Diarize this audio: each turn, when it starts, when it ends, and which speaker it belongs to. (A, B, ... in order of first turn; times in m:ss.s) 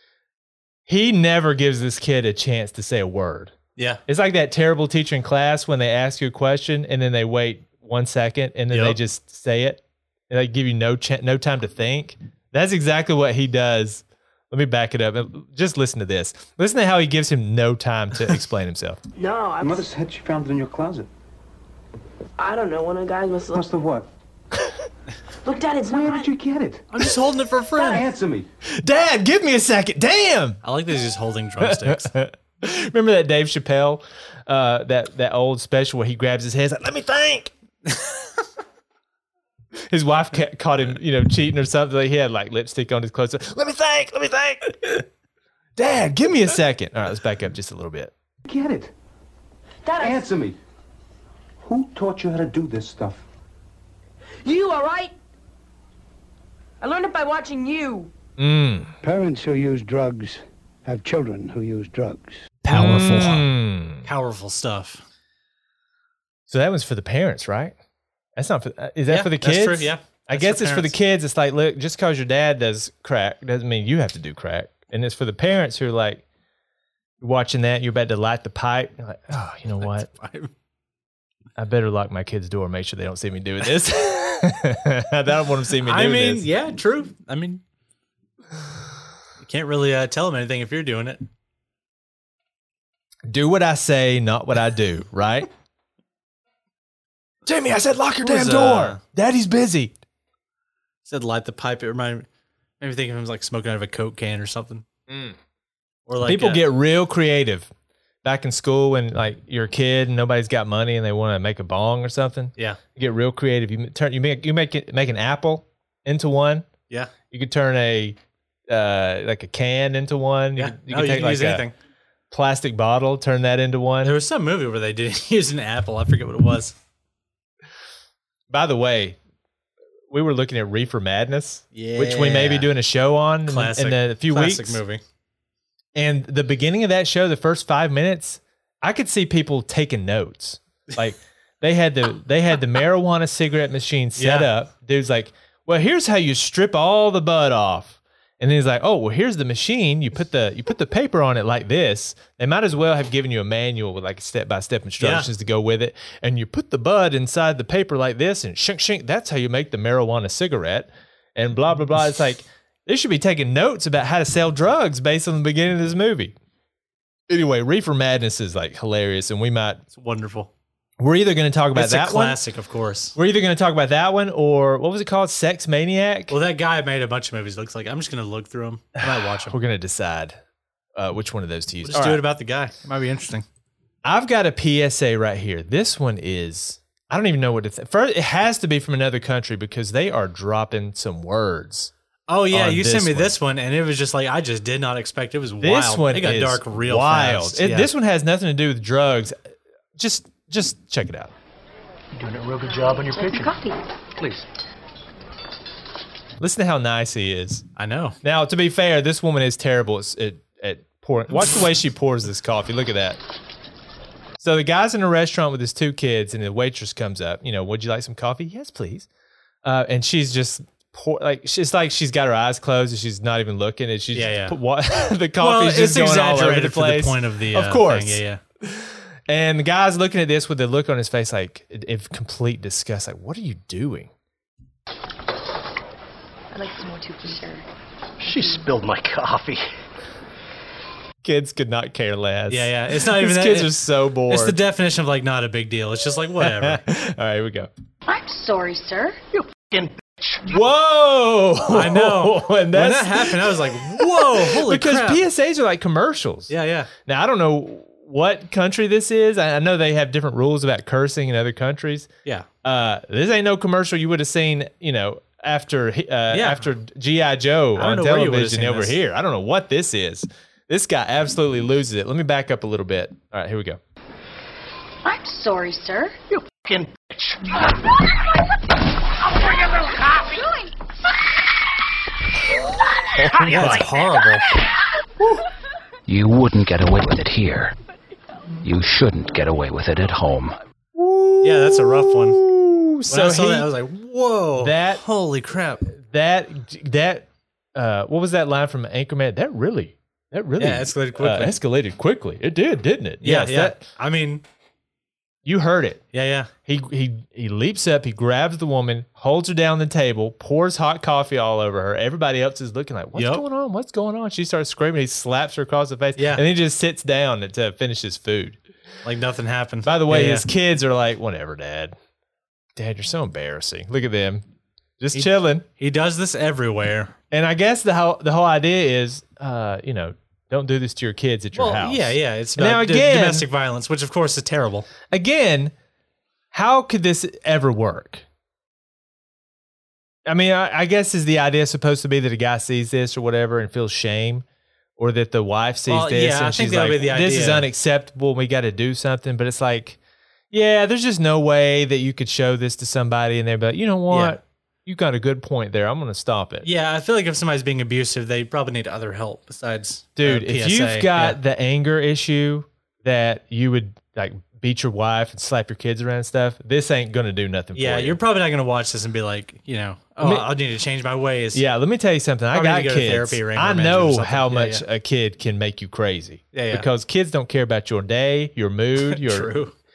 0:00.9-0:03.5 A
0:04.1-0:19.0 A
0:08.7-0:09.0 B
0:19.2-0:19.9 C
0:19.6-0:21.1 D
0:22.4-0:23.6 C
0:23.5-0:24.1 D
0:25.4-0:26.3 C
0:25.8-0:26.9 D
0:26.9-0:28.0 B
0:27.8-0:28.5 D
0:28.8-0:30.6 A
0:30.6-0:32.1 B
0:31.6-0:37.5 A
0:39.9-0:45.0 A
0:45.8-0:48.1 A
0:48.4-0:48.9 D
0:49.9-0:50.3 C
0:50.0-0:50.6 D
0:51.6-0:53.2 D
0:54.4-0:55.1 C
0:56.8-0:58.1 C
0:58.4-0:58.9 A
0:59.0-1:02.4 E
1:02.6-1:04.1 A
1:02.7-1:03.5 B
1:04.0-1:05.0 B
1:06.5-1:07.8 A
1:08.4-1:16.2 A
1:09.1-1:10.9 B
1:17.2-1:20.1 A
1:19.8-1:20.5 B
1:21.6-1:26.5 A
1:25.8-1:27.6 B
1:29.4-1:31.2 B
1:33.3-1:35.5 A
1:37.4-1:40.0 A
1:38.2-1:39.0 B
1:41.1-1:42.3 B
1:42.8-1:44.8 B
1:45.1-1:45.4 A
1:46.1-1:46.6 B
1:46.2-1:47.7 A
1:48.2-1:56.7 A
1:57.3-1:58.2 A
1:58.7-2:01.6 A
2:00.6-2:01.7 B
2:02.3-2:04.2 A
2:04.0-2:06.7 B
2:08.5-2:09.2 A
2:10.1-2:14.8 A
2:11.7-2:12.7 B
2:13.5-2:15.0 B
2:16.0-2:46.4 A
2:24.2-2:24.5 B
2:35.0-2:35.3 B
2:47.3-2:49.8 A
2:50.0-2:50.5 B
2:51.0-2:52.4 A
2:51.8-2:53.2 B
2:53.2-2:56.4 A
2:56.3-2:59.6 B
2:59.3-3:00.4 A
3:01.0-3:02.2 A
3:01.8-3:03.4 B
3:04.0-3:11.9 A
3:12.3-3:17.9 B
3:12.5-3:13.3 A
3:15.6-3:19.4 A
3:20.0-3:21.3 A
3:22.6-3:23.8 F
3:26.4-3:27.7 A
3:27.8-3:28.2 B
3:28.2-3:33.2 A
3:34.4-3:39.1 A
3:39.6-3:54.1 A
3:44.1-3:44.6 B
3:45.4-3:48.4 B
3:56.5-3:57.6 F
3:58.2-3:58.8 F
4:01.2-4:04.6 A
4:02.5-4:03.8 B
4:04.3-4:06.8 B
4:06.4-4:07.7 A
4:08.1-4:09.2 F
4:10.4-4:16.5 A
4:11.7-4:15.2 B
4:16.5-4:16.9 B
4:17.0-4:22.1 A
4:22.6-4:33.8 A
4:26.3-4:26.7 B
4:27.8-4:29.0 B
4:35.0-4:36.2 F
4:43.2-4:43.9 A
4:43.4-4:44.5 B
4:46.1-4:47.7 G
4:48.6-4:50.6 G
4:51.0-4:53.7 A
4:51.4-4:52.4 B
4:53.1-4:55.8 B
4:54.6-4:55.0 A
4:55.9-5:03.8 A
5:00.6-5:01.6 B
5:03.2-5:04.4 B
5:05.4-5:06.0 A
5:06.1-5:06.5 B
5:06.7-5:18.6 A
5:13.2-5:13.4 B
5:16.2-5:16.4 B
5:19.0-5:20.5 B
5:19.8-5:22.0 A
5:22.8-5:24.4 A
5:25.0-5:25.6 A
5:25.1-5:27.1 B
5:27.3-5:33.5 A
5:31.6-5:34.9 B
5:35.1-5:35.7 A
5:36.5-5:38.2 A
5:40.3-5:44.4 A
5:45.0-5:50.0 A
5:45.9-5:47.7 B
5:50.5-5:56.7 A
5:54.1-5:54.4 B
5:56.6-6:01.4 B
6:00.2-6:08.2 A
6:07.8-6:11.6 B
6:10.2-6:10.5 A
6:11.5-6:19.5 A
6:12.5-6:14.8 B
6:16.5-6:16.9 B
6:19.1-6:19.7 B